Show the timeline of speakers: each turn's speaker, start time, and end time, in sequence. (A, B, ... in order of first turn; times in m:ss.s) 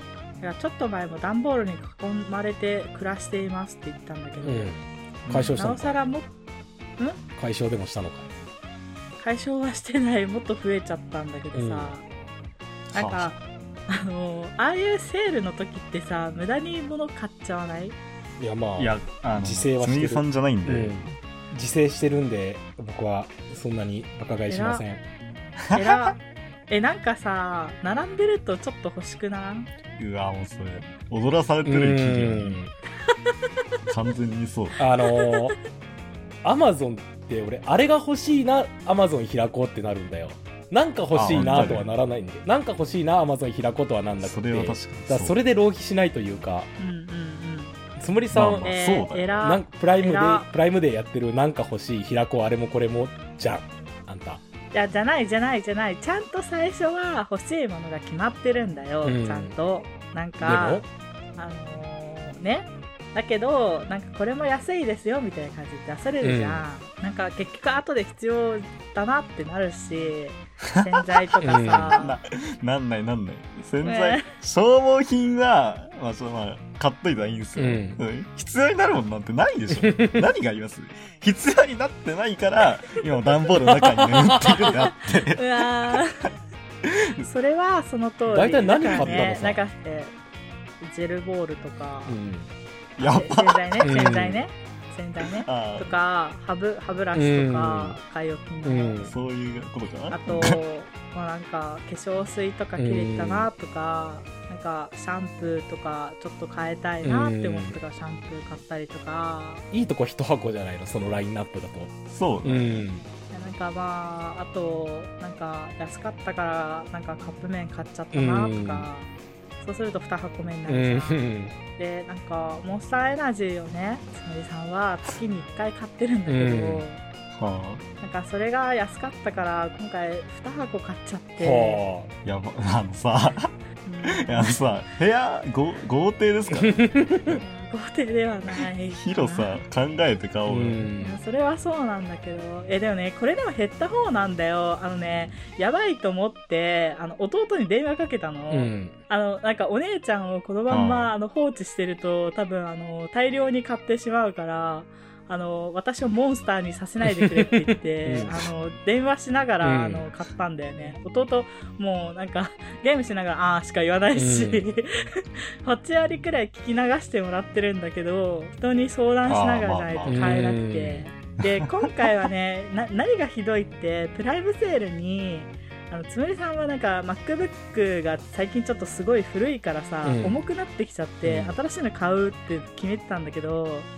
0:00.4-0:04.8 A
0:04.4-0:06.0 B
0:05.2-0:05.6 C
0:05.6-0:06.3 A
0:07.4-0:08.3 B
0:09.2-0:12.0 A
0:11.5-0:11.9 B
0:12.9-0:13.4 C
0:12.9-0:13.4 A
0:13.9-0:18.0 A
0:18.4-0:25.0 B
0:18.8-0:21.1 C
0:24.5-0:24.8 A
0:25.6-0:26.1 C
0:25.7-0:29.7 A
0:29.9-0:32.6 C
0:31.6-0:32.7 B
0:33.8-0:34.8 C
0:34.8-0:35.6 B
0:36.4-0:46.7 B
0:41.1-0:41.9 C
0:44.2-0:45.4 C
0:46.8-0:47.8 A
0:48.0-0:48.7 B
0:48.3-0:49.4 C
0:48.6-0:50.5 A
0:49.4-0:54.4 B
0:54.7-1:00.8 A
0:59.0-0:59.5 B
1:00.4-1:00.9 B
1:01.4-1:12.2 A
1:06.2-1:06.6 B
1:10.6-1:10.9 C
1:11.4-1:12.0 B
1:11.9-1:26.0 C
1:13.8-1:14.3 A
1:17.6-1:18.0 B
1:19.7-1:20.3 B
1:23.7-1:24.7 B
1:24.8-1:26.3 A
1:26.8-1:27.3 C
1:27.2-1:30.1 A
1:28.3-1:29.6 B
1:28.9-1:29.4 C
1:30.8-1:32.2 A
1:32.0-1:32.5 B
1:33.0-1:34.2 C
1:33.0-1:39.1 A
1:33.8-1:34.4 B
1:35.4-1:35.9 C
1:37.1-1:38.0 B
1:38.6-1:39.1 B
1:39.0-1:40.6 C
1:40.1-1:49.7 A
1:42.8-1:43.5 B
1:47.0-1:47.8 B
1:49.7-1:51.9 B
1:52.1-1:52.9 C
1:52.4-1:53.0 B
1:53.3-2:07.0 A
1:58.1-1:58.9 B
2:00.7-2:01.5 B
2:06.3-2:06.8 B
2:07.3-2:07.8 C
2:08.0-2:11.8 A
2:11.4-2:12.1 B
2:12.2-2:13.5 C
2:13.8-2:14.5 A
2:14.1-2:17.4 C
2:16.5-2:17.3 B
2:17.4-2:19.6 A
2:18.9-2:20.9 C
2:20.5-2:21.2 B
2:21.0-3:03.9 A
2:28.5-2:28.9 B
2:30.7-2:31.1 C
2:37.1-2:38.3 B
2:39.6-2:40.1 B
2:44.1-2:44.7 B
2:49.2-2:50.4 C
2:50.0-2:51.0 B
2:51.4-2:52.1 C
3:00.0-3:00.4 B
3:01.2-3:01.6 B